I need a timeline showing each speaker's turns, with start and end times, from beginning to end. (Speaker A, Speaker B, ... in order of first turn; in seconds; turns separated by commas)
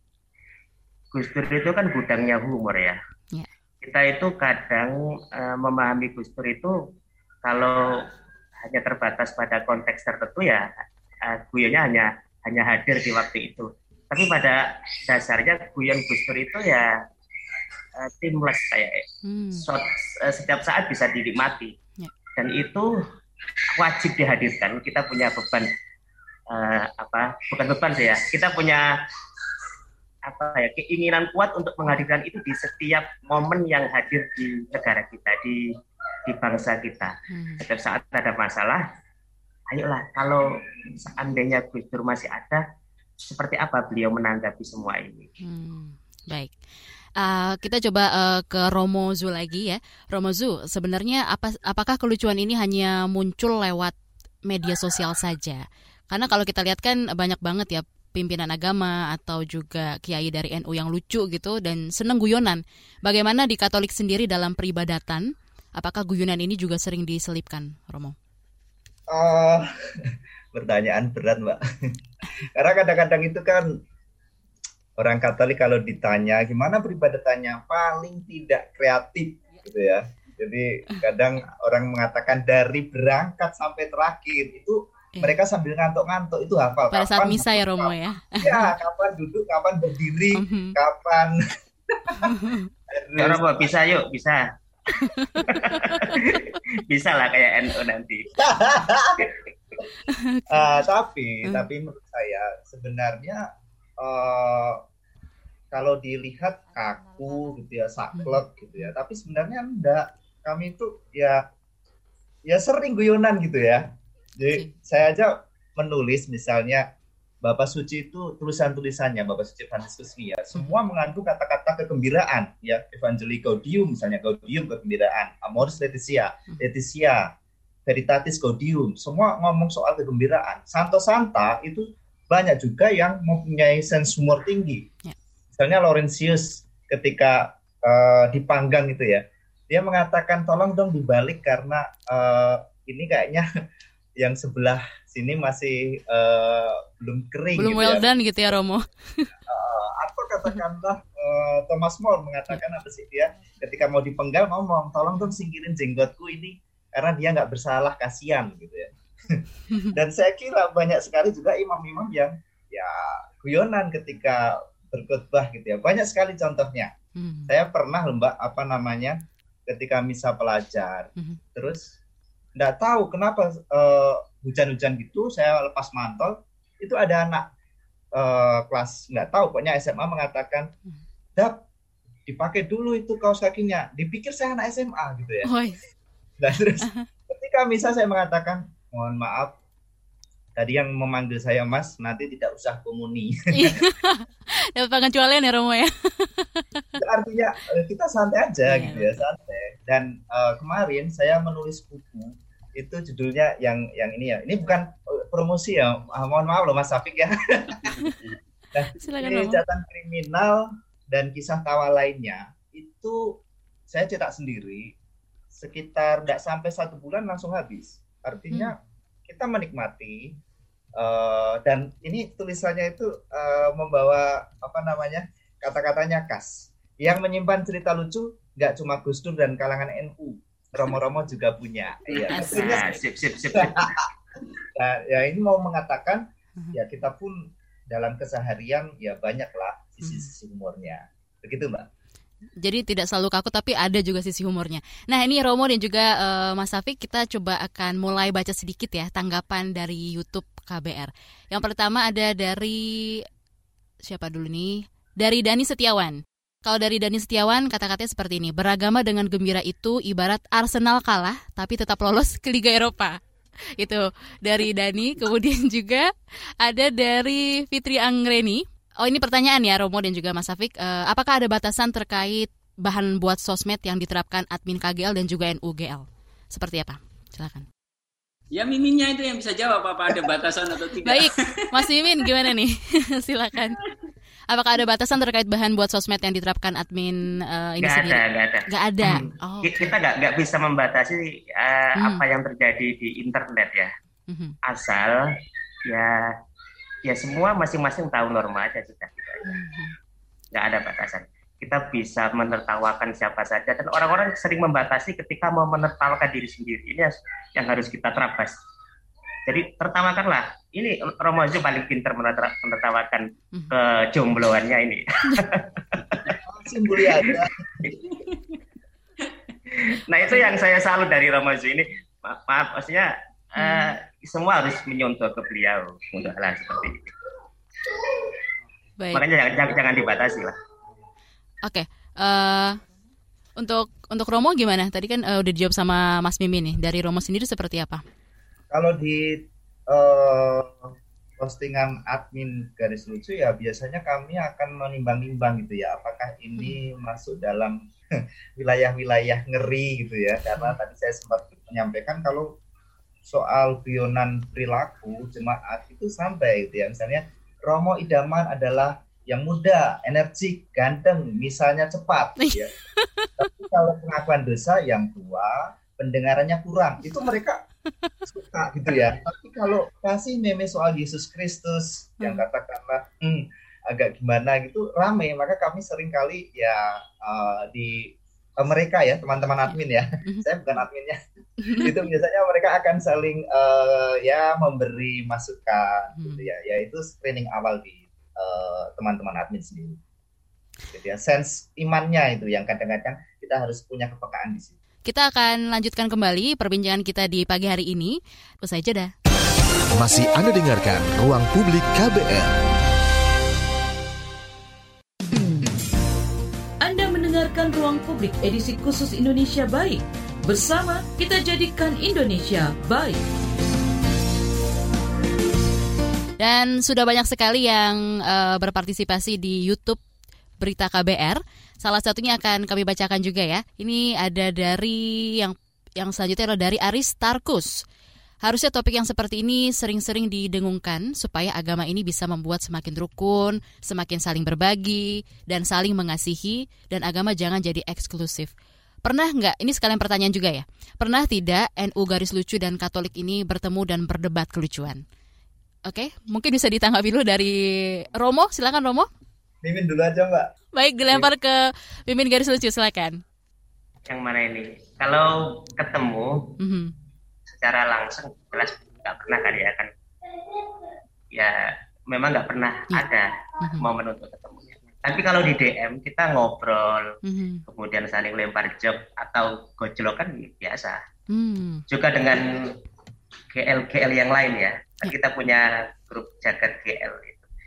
Speaker A: 1.1-3.0, Speaker A: 3.8-6.7, Speaker A: 7.4-8.1, Speaker A: 8.6-10.7, Speaker A: 11.2-16.9, Speaker A: 18.0-19.0, Speaker B: 19.2-19.6, Speaker A: 19.5-21.7, Speaker A: 22.4-22.9, Speaker A: 23.7-25.7, Speaker A: 26.5-28.8, Speaker A: 30.3-35.6, Speaker A: 36.2-38.8, Speaker B: 37.3-37.6, Speaker A: 39.7-40.4, Speaker A: 41.0-42.6, Speaker A: 43.2-45.3, Speaker B: 45.4-46.5, Speaker B: 47.2-53.9, Speaker B: 54.5-65.2, Speaker B: 65.8-68.2, Speaker C: 69.1-72.0, Speaker C: 72.5-73.7, Speaker C: 75.0-91.4, Speaker B: 86.9-88.7, Speaker B: 90.3-90.8, Speaker C: 91.9-92.3, Speaker B: 92.2-92.7, Speaker C: 92.9-93.4, Speaker A: 93.2-94.4, Speaker B: 95.0-95.4, Speaker A: 95.3-98.3, Speaker C: 98.4-99.2, Speaker A: 99.2-99.5, Speaker B: 100.1-100.7, Speaker C: 100.5-103.5, Speaker C: 104.0-104.8, Speaker C: 105.7-111.4, Speaker B: 108.1-108.8, Speaker C: 112.5-116.9, Speaker C: 117.4-127.3, Speaker C: 127.8-134.9, Speaker C: 135.6-143.4, Speaker C: 144.2-148.1, Speaker B: 147.6-149.3, Speaker C: 149.5-166.9, Speaker B: 167.2-167.5, Speaker C: 167.5-171.9, Speaker C: 172.6-177.5, Speaker C: 178.1-180.7, Speaker C: 181.3-181.6, Speaker C: 182.2-185.5, Speaker B: 185.4-185.8, Speaker C: 186.4-189.6, Speaker C: 190.6-193.8, Speaker B: 193.5-196.8, Speaker C: 197.0-207.9, Speaker B: 198.7-199.1, Speaker C: 208.7-214.9, Speaker B: 209.0-209.6, Speaker C: 215.5-220.4, Speaker C: 220.9-232.9, Speaker A: 232.1-234.1, Speaker B: 232.3-232.8, Speaker C: 233.6-234.1, Speaker C: 234.7-241.9, Speaker B: 240.0-240.3, Speaker B: 242.6-253.2, Speaker B: 254.0-263.2, Speaker B: 263.8-266.1, Speaker B: 266.6-277.6, Speaker D: 278.5-281.6, Speaker B: 281.0-283.8, Speaker B: 284.5-289.8, Speaker A: 287.8-293.9, Speaker B: 292.0-292.2, Speaker B: 294.3-294.6, Speaker A: 294.7-295.3, Speaker A: 295.9-296.3, Speaker A: 297.1-299.4, Speaker B: 299.5-299.9, Speaker A: 300.5-308.5, Speaker A: 309.5-316.4, Speaker C: 316.4-317.5, Speaker A: 317.0-318.6, Speaker A: 319.7-327.1, Speaker B: 323.6-323.9, Speaker A: 327.8-328.4, Speaker A: 329.1-330.5, Speaker B: 331.6-332.8, Speaker B: 333.6-338.0, Speaker C: 338.7-347.8, Speaker C: 348.6-352.6, Speaker C: 353.2-362.7, Speaker B: 362.4-363.5, Speaker C: 363.4-367.6, Speaker C: 368.2-381.2, Speaker B: 381.6-381.9, Speaker C: 381.7-390.0, Speaker B: 386.2-386.5, Speaker C: 390.9-394.7, Speaker B: 395.1-399.1, Speaker E: 399.9-402.6, Speaker F: 406.8-413.2, Speaker B: 416.4-420.0, Speaker B: 420.6-427.7, Speaker B: 428.4-438.5, Speaker B: 439.0-445.0, Speaker B: 445.9-449.1, Speaker C: 449.6-450.5, Speaker B: 450.7-453.2, Speaker A: 454.1-456.5, Speaker B: 456.6-456.9, Speaker A: 457.6-459.9, Speaker A: 461.3-467.1, Speaker B: 463.6-463.9, Speaker B: 467.2-467.6, Speaker A: 467.7-471.0, Speaker B: 471.3-471.8, Speaker A: 471.9-472.7, Speaker A: 473.5-477.4